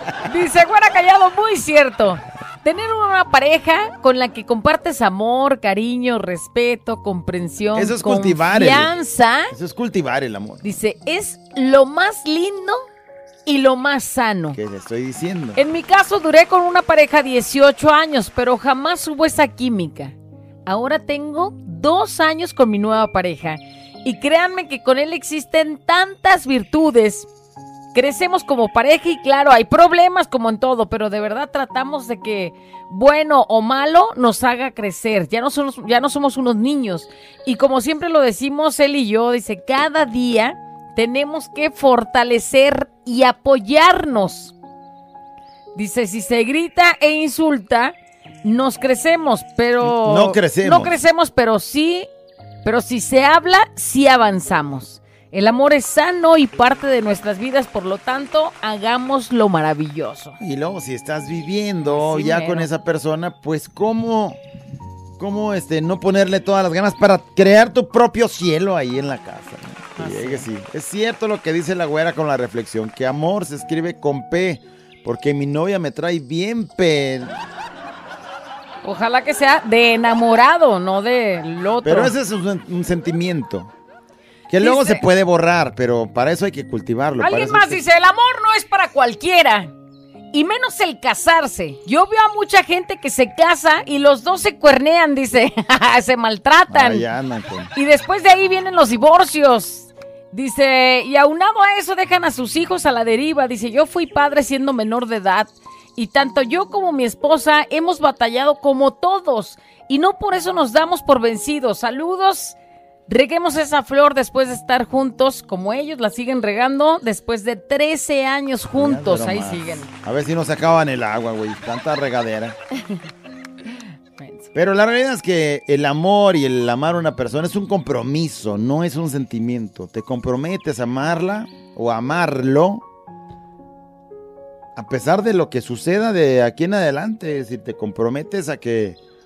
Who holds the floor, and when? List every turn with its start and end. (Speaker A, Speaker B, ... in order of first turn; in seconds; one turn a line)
Speaker A: 0.2-9.5
Speaker B: 7.7-8.9
Speaker B: 9.5-10.6
Speaker A: 10.6-12.8
Speaker A: 13.4-14.6
Speaker B: 14.5-15.6
Speaker A: 15.6-20.1
Speaker A: 20.6-27.3
Speaker A: 27.9-44.5
Speaker A: 45.7-52.1
Speaker B: 49.8-50.9
Speaker A: 52.6-60.4
Speaker B: 60.4-64.4
Speaker A: 61.9-62.7
Speaker B: 65.2-77.4
Speaker A: 70.0-70.5
Speaker A: 78.8-82.1
Speaker B: 81.8-83.7
Speaker B: 84.5-87.8
Speaker A: 84.6-85.0
Speaker A: 87.2-89.7
Speaker A: 90.3-97.0
Speaker B: 96.7-97.7
Speaker A: 97.7-112.6
Speaker A: 113.1-119.9
Speaker B: 118.8-122.6
Speaker A: 124.2-124.5
Speaker B: 124.5-132.8
Speaker B: 134.8-139.0